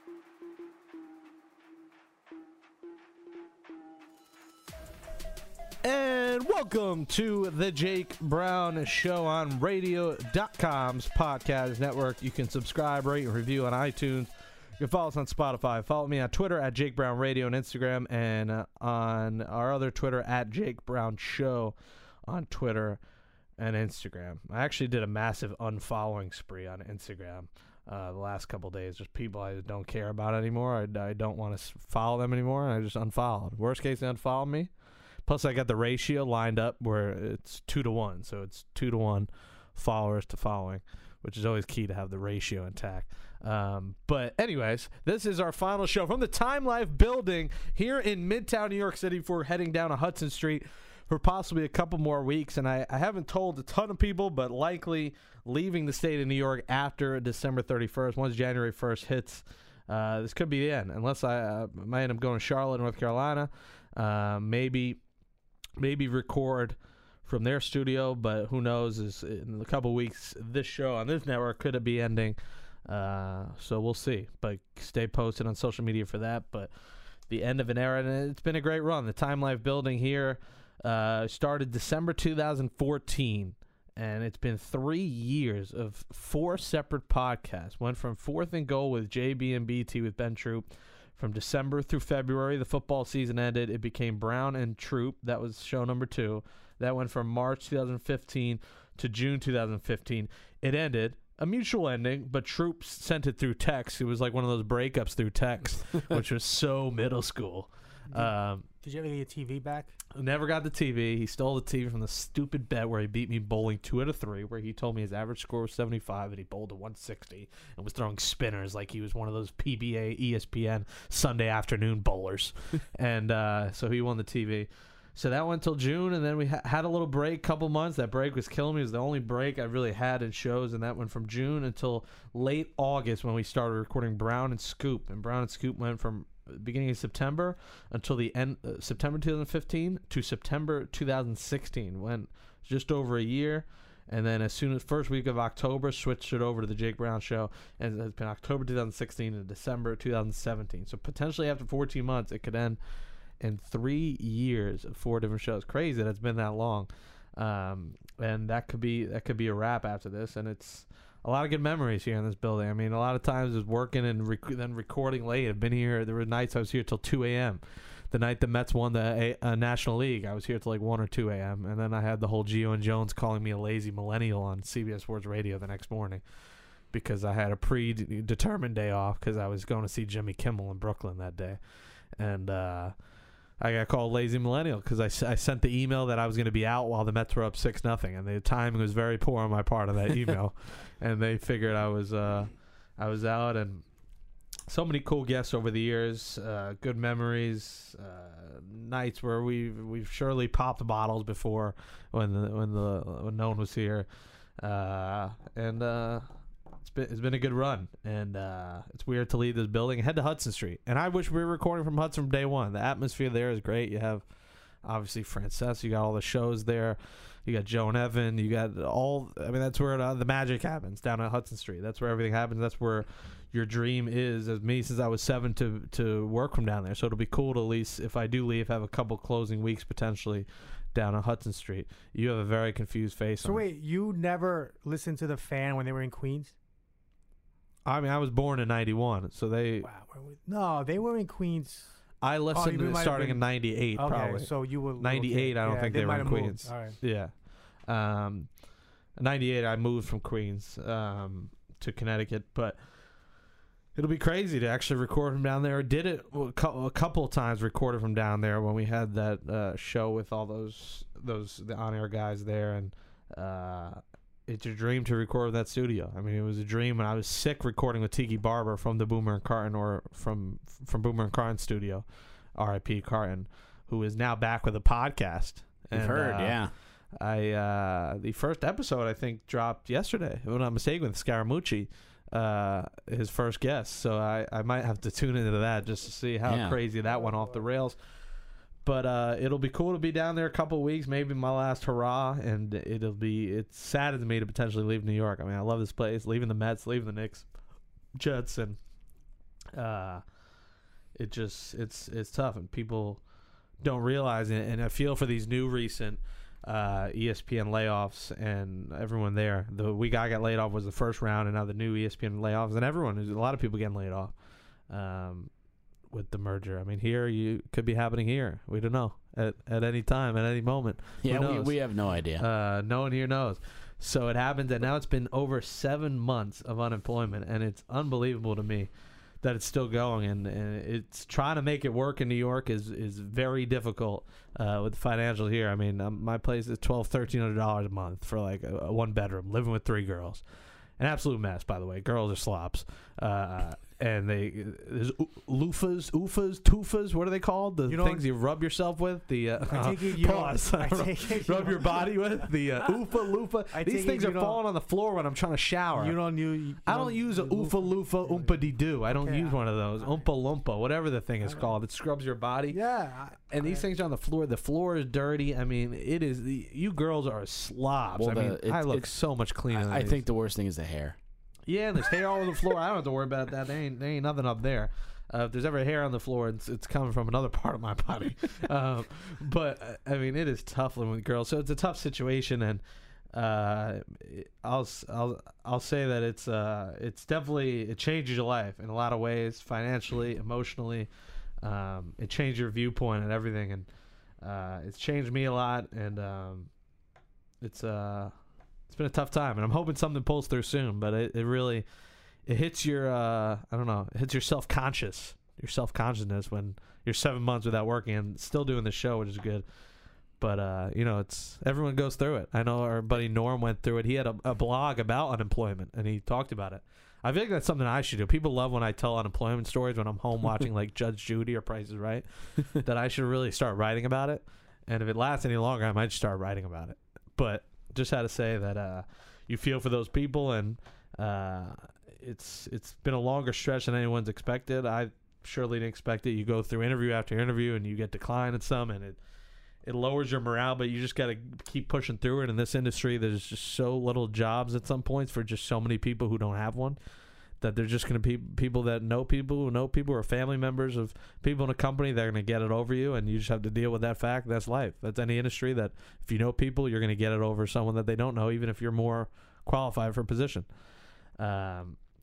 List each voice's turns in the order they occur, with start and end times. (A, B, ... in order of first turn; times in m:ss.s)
0:05.8-0:21.7 A
0:22.2-0:23.0 A
0:23.6-0:34.7 A
0:35.2-1:05.0 A
1:05.8-1:16.7 A
1:17.3-1:48.6 A
1:48.1-1:49.9 B
1:50.1-2:32.8 A
2:33.4-2:56.2 A
2:56.9-3:01.6 A
3:02.2-3:02.9 A
3:03.6-3:13.8 A
3:14.7-3:24.0 A
3:24.6-3:26.2 A
3:26.8-3:34.2 A
3:34.8-3:53.6 A
3:53.4-3:56.5 B
3:57.8-3:59.9 A
3:59.8-4:01.9 B
4:02.2-4:08.6 A
4:02.5-4:07.0 B
4:09.2-4:12.8 A
4:13.9-4:48.0 A
4:35.9-4:36.7 C
4:46.4-4:46.8 C
4:47.3-4:47.6 B
4:48.8-4:57.5 A
4:58.1-4:58.8 A
4:59.7-5:00.2 A
5:01.2-5:03.2 A
5:03.8-5:14.3 A
5:14.9-5:15.5 A
5:16.1-5:28.9 A
5:21.2-5:22.4 C
5:29.4-5:40.4 A
5:41.0-5:56.2 A
5:47.9-5:48.2 B
5:49.6-5:52.2 B
5:53.7-5:54.6 B
5:56.0-6:00.2 B
5:56.8-6:02.8 A
6:02.7-6:03.8 B
6:03.5-6:10.2 A
6:08.1-6:09.1 C
6:09.7-6:11.2 C
6:11.7-6:22.8 A
6:23.3-6:31.1 A
6:31.6-6:33.9 A
6:34.4-6:36.7 A
6:37.6-6:38.3 A
6:38.9-6:41.8 A
6:42.4-6:49.6 A
6:50.4-7:19.2 A
7:19.8-7:27.0 A
7:27.6-7:40.7 A
7:41.4-7:42.0 A